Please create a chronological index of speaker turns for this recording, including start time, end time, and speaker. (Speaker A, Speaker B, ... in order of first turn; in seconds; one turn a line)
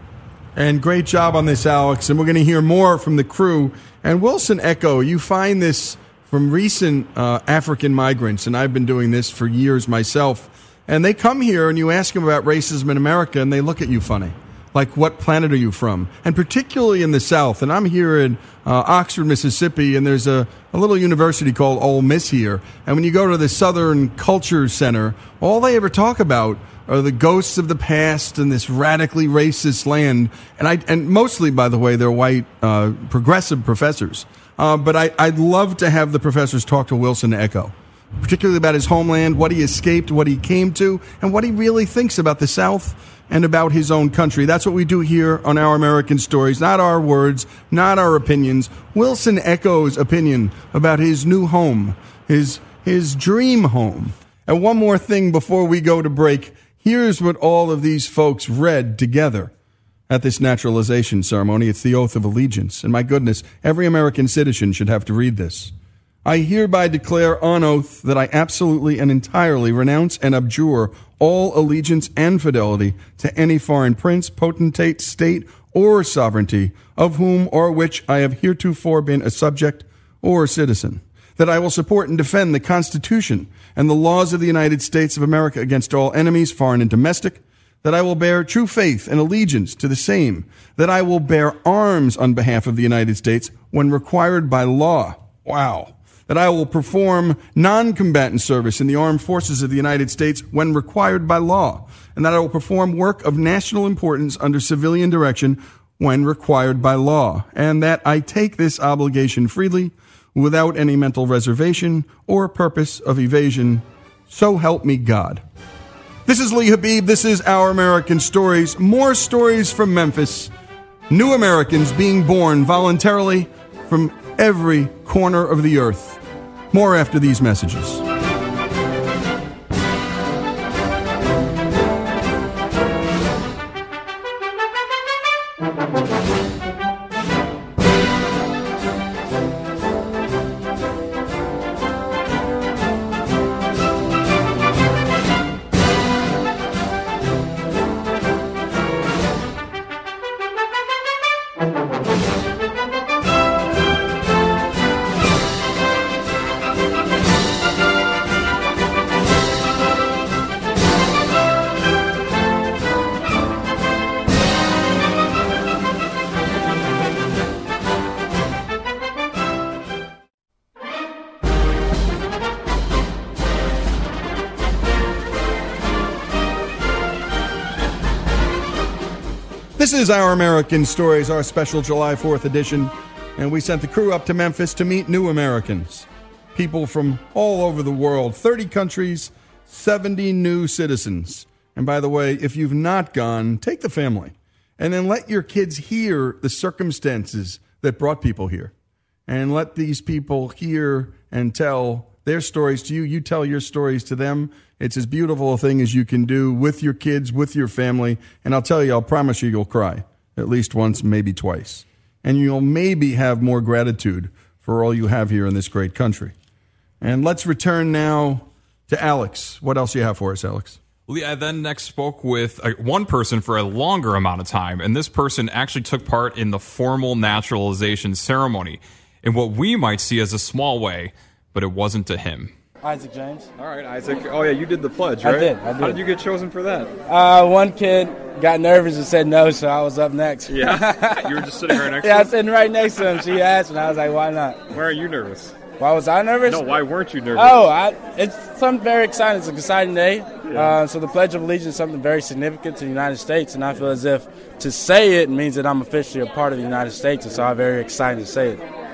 Speaker A: 0.6-59.5
Speaker A: 60.1-65.7
Speaker A: 66.2-115.4
Speaker A: 116.2-120.5
Speaker A: 121.1-126.2
Speaker A: 126.7-128.0
Speaker A: 179.8-198.7
Speaker A: 199.3-216.3
Speaker A: 217.0-220.8
Speaker B: 221.1-232.5
Speaker C: 232.8-233.5
Speaker D: 233.6-236.9
Speaker C: 235.2-236.0
Speaker C: 237.1-244.6
Speaker D: 240.5-242.4
Speaker D: 242.9-243.4
Speaker D: 244.7-245.6
Speaker C: 245.8-246.8
Speaker D: 246.4-247.7
Speaker C: 247.3-258.6
Speaker D: 250.4-250.8